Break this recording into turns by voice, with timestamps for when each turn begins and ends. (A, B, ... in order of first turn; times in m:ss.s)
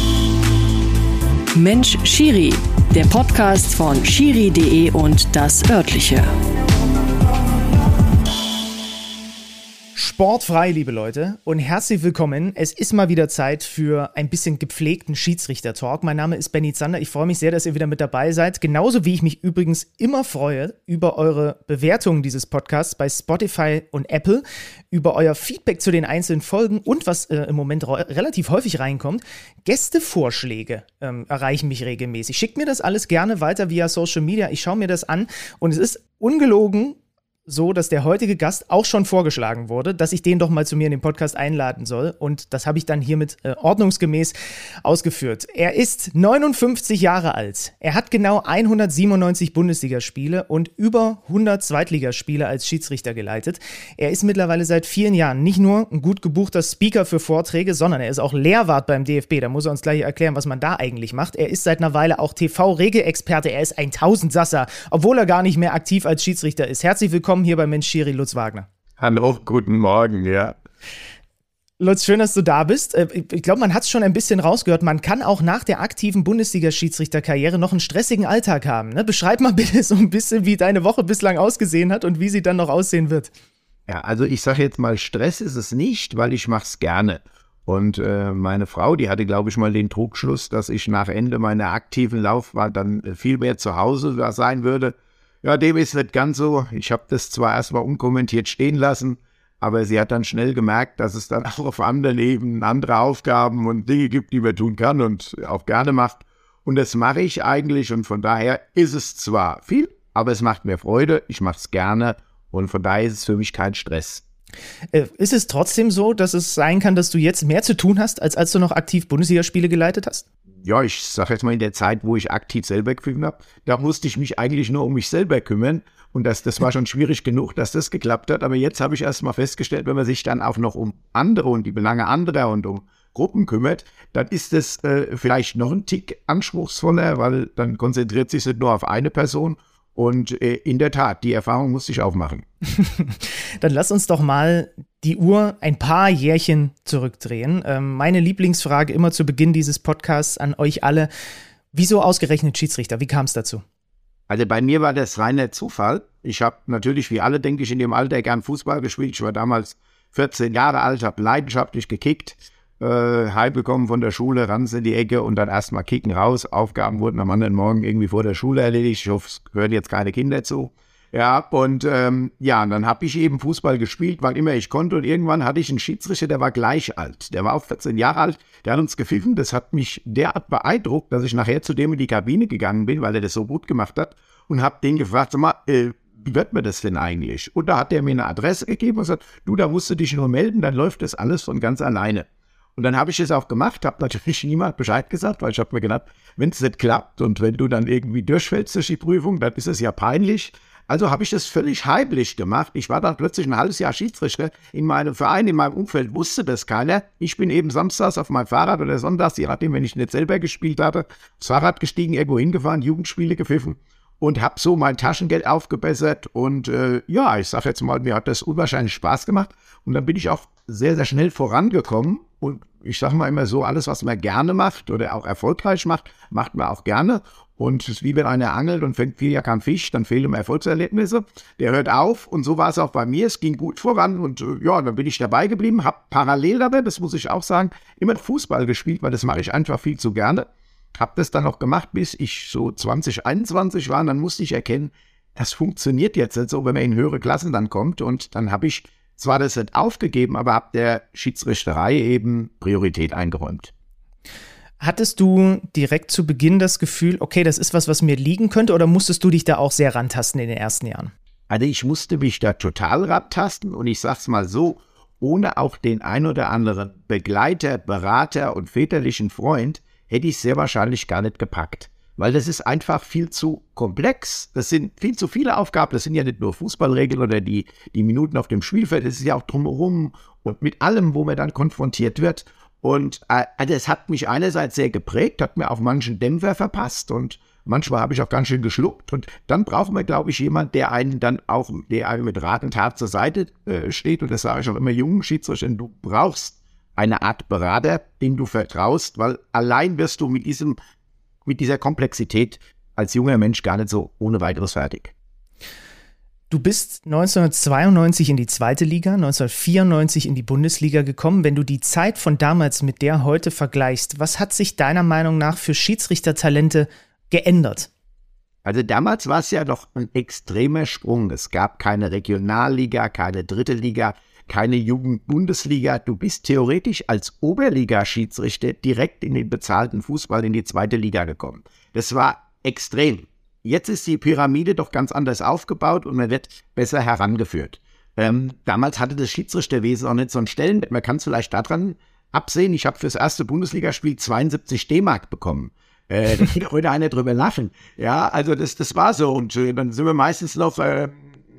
0:01.6-0:06.3 A
0:10.0-1:08.7 B
1:09.0-1:10.6 C
1:11.8-1:23.3 B
1:23.9-1:54.2 C
1:54.9-2:00.2 B
2:00.6-2:22.4 C
2:22.7-2:31.1 B
2:31.7-2:33.6 B
2:34.3-4:13.7 C
4:14.8-4:21.1 B
4:21.5-5:00.8 C
5:01.5-5:05.1 C
5:06.5-5:17.9 B
5:18.6-5:51.3 C